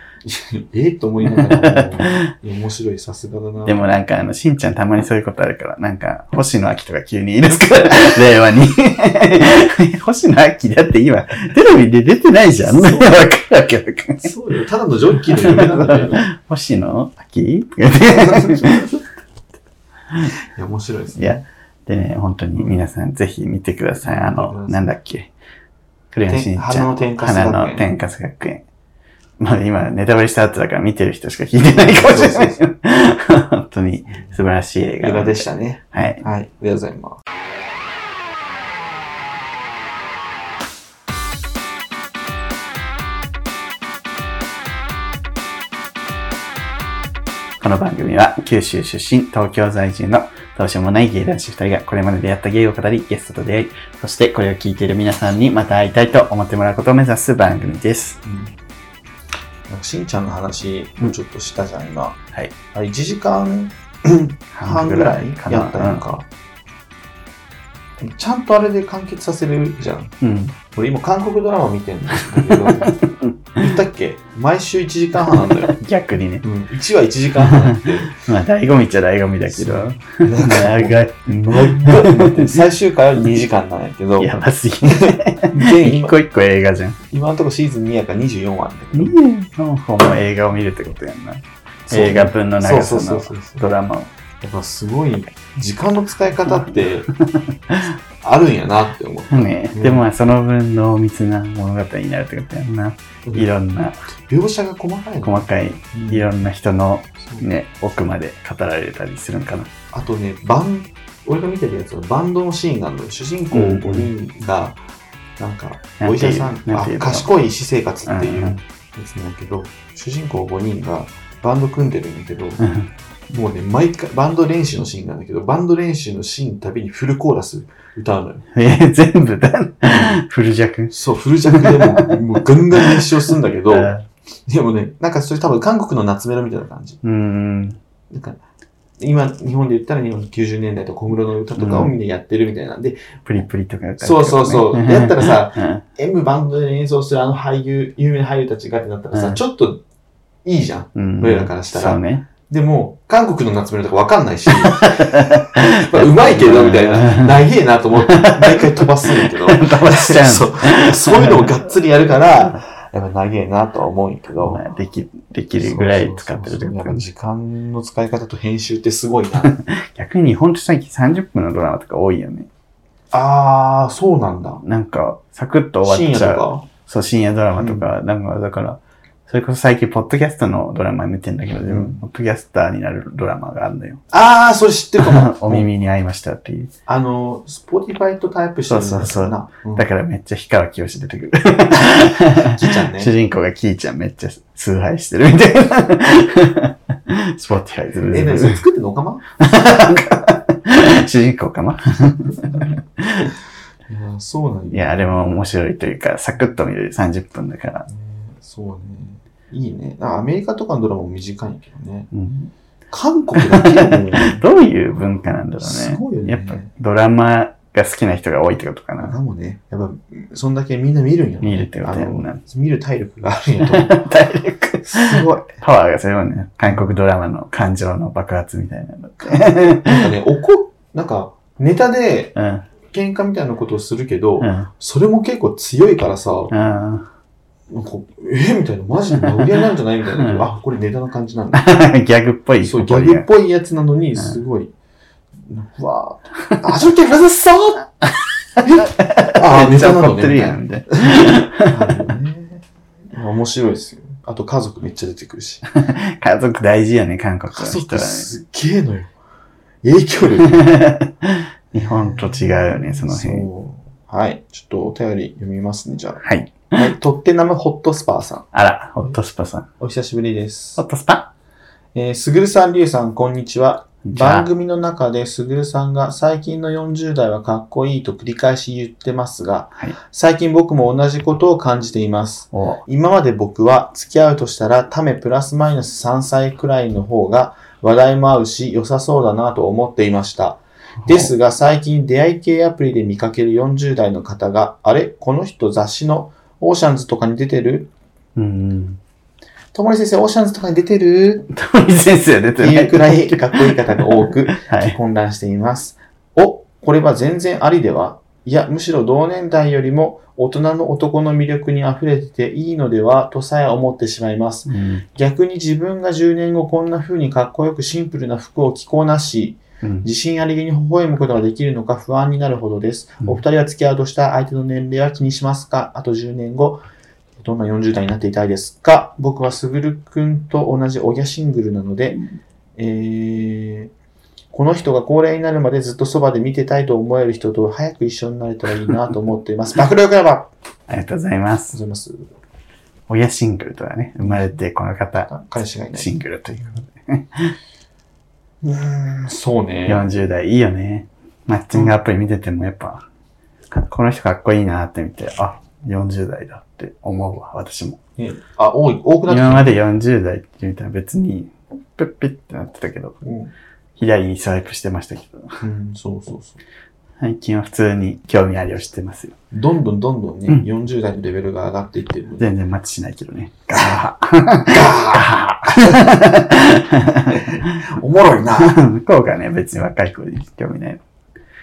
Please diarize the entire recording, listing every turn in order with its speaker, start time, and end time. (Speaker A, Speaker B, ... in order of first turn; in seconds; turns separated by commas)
Speaker A: 0.2-3.9, Speaker B: 1.3-2.3, Speaker B: 3.7-14.3, Speaker A: 12.7-13.3, Speaker A: 14.2-16.3, Speaker B: 15.2-19.0, Speaker A: 18.1-19.0, Speaker A: 20.4-21.4, Speaker B: 21.2-25.3, Speaker A: 24.0-24.9, Speaker B: 26.1-28.6, Speaker A: 26.3-27.9, Speaker B: 29.4-36.2, Speaker A: 31.7-32.6, Speaker A: 35.0-37.2, Speaker B: 47.6-58.2, Speaker A: 58.2-58.5, Speaker A: 59.7-62.2, Speaker A: 62.7-66.3, Speaker B: 64.5-66.0, Speaker A: 68.0-70.2, Speaker B: 70.2-70.5, Speaker A: 70.7-73.0, Speaker B: 72.4-73.7, Speaker A: 73.6-75.7, Speaker B: 75.3-76.5, Speaker A: 76.4-78.1, Speaker B: 77.4-82.6, Speaker A: 79.5-86.2, Speaker B: 84.2-87.0, Speaker A: 87.1-89.2, Speaker B: 88.9-94.1, Speaker A: 91.9-93.6, Speaker A: 94.4-97.1, Speaker B: 96.5-98.0, Speaker A: 98.2-100.0, Speaker B: 99.3-104.1, Speaker A: 104.3-106.3, Speaker B: 105.2-109.7, Speaker A: 109.9-114.8, Speaker B: 113.5-114.1, Speaker A: 115.4-122.6, Speaker B: 116.0-117.3, Speaker B: 118.1-118.6, Speaker B: 122.6-122.9, Speaker A: 123.3-128.4, Speaker B: 128.6-132.2, Speaker A: 129.9-130.2, Speaker A: 130.9-133.9, Speaker B: 132.8-133.0, Speaker B: 133.7-134.1, Speaker A: 134.5-137.0, Speaker B: 137.0-137.8, Speaker A: 138.1-138.4, Speaker A: 139.0-143.2, Speaker B: 141.6-142.0, Speaker B: 143.3-145.8, Speaker A: 144.0-149.8, Speaker B: 149.1-149.4, Speaker A: 150.4-164.6, Speaker B: 150.9-152.3, Speaker B: 154.5-157.4, Speaker B: 158.0-161.6, Speaker B: 164.4-167.1, Speaker A: 165.6-169.6, Speaker B: 169.4-172.5, Speaker A: 173.1-174.6, Speaker B: 174.6-184.0, Speaker A: 175.8-176.7, Speaker A: 177.6-177.9, Speaker A: 181.6-182.0, Speaker A: 184.1-185.7, Speaker B: 185.0-186.7, Speaker A: 186.9-189.9, Speaker B: 188.7-198.6, Speaker A: 191.9-193.1, Speaker A: 198.1-199.3, Speaker B: 199.4-203.3, Speaker A: 203.9-204.8, Speaker B: 204.7-207.9, Speaker A: 207.9-212.1, Speaker B: 212.1-212.5, Speaker A: 212.9-214.4, Speaker B: 213.4-219.2, Speaker A: 215.6-216.7, Speaker A: 219.0-224.1, Speaker B: 221.4-222.4, Speaker B: 223.6-230.1, Speaker A: 224.8-225.6, Speaker A: 229.2-232.4, Speaker B: 232.4-232.7, Speaker A: 232.9-236.5, Speaker B: 234.4-234.7, Speaker B: 236.5-237.1, Speaker A: 237.7-241.7, Speaker B: 240.2-240.5, Speaker B: 241.5-243.3, Speaker A: 242.6-244.7, Speaker A: 245.4-247.9, Speaker A: 248.6-255.6, Speaker B: 248.7-252.1, Speaker B: 255.7-258.3, Speaker A: 257.5-259.1, Speaker A: 259.8-260.6, Speaker B: 260.5-263.5, Speaker A: 261.8-268.5, Speaker B: 266.2-266.9, Speaker B: 268.5-269.7, Speaker A: 269.8-270.8, Speaker B: 270.8-271.3, Speaker A: 271.9-297.9, Speaker B: 274.1-274.5, Speaker B: 282.5-282.8, Speaker B: 291.0-291.3, Speaker B: 298.4-299.0, Speaker A: 299.7-301.5, Speaker B: 301.5-305.0, Speaker A: 302.6-326.8, Speaker B: 314.7-315.1, Speaker B: 319.8-320.1, Speaker A: 327.4-332.2, Speaker A: 332.8-333.9, Speaker A: 334.5-340.5, Speaker B: 340.9-341.8, Speaker A: 341.7-342.2, Speaker B: 343.1-345.3, Speaker A: 345.3-346.1, Speaker B: 345.9-347.5, Speaker A: 348.6-350.1, Speaker B: 349.9-353.1, Speaker B: 353.7-358.0, Speaker A: 358.2-359.8, Speaker B: 359.3-363.2, Speaker A: 363.2-363.5, Speaker B: 364.0-365.6, Speaker A: 365.6-366.6, Speaker B: 367.2-369.4, Speaker A: 369.5-372.4, Speaker B: 372.4-377.8, Speaker A: 374.7-376.0, Speaker A: 377.3-378.8, Speaker B: 378.6-381.0